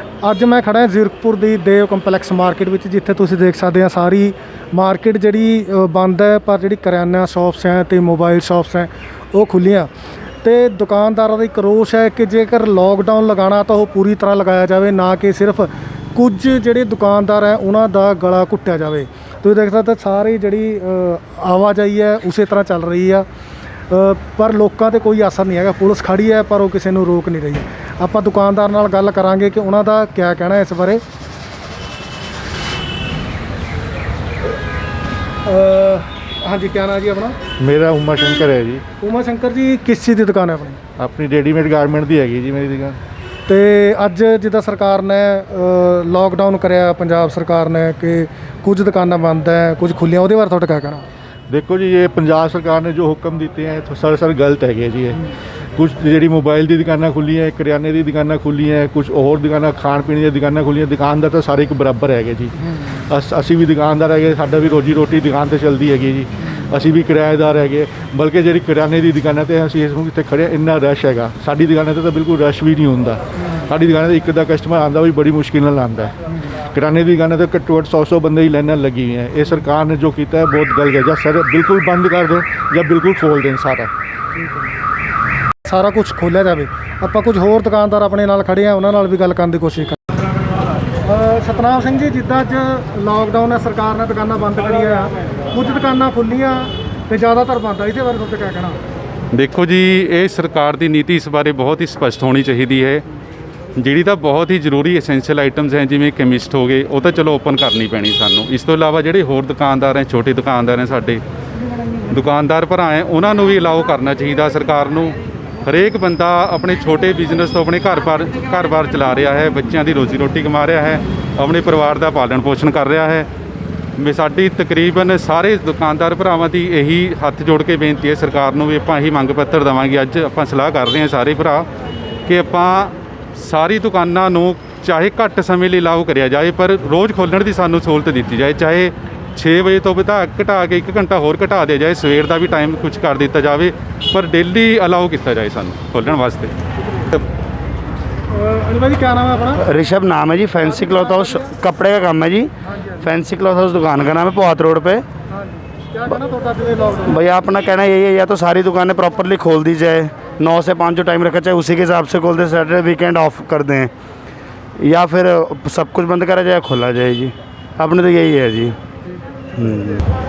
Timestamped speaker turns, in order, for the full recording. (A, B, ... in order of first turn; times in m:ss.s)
0:00.2-0:09.9 A
0:10.4-0:23.2 A
0:23.9-0:31.0 A
0:35.4-0:37.4 A
0:37.6-0:38.8 B
0:39.0-0:40.8 A
0:41.0-0:43.0 B
0:43.5-0:51.0 A
0:51.5-1:16.1 B
1:16.7-1:23.9 B
1:25.6-1:30.0 A
1:31.0-1:38.8 A
1:39.3-1:43.0 C
1:43.8-1:51.2 C
1:52.1-2:03.3 C
2:04.0-2:11.6 C
2:12.3-2:26.5 C
2:28.3-2:29.6 A
2:29.6-2:35.0 D
2:30.6-2:31.5 A
2:32.6-2:33.0 A
2:35.3-2:37.2 A
2:37.1-2:43.9 D
2:44.8-2:48.7 D
2:49.6-2:50.0 D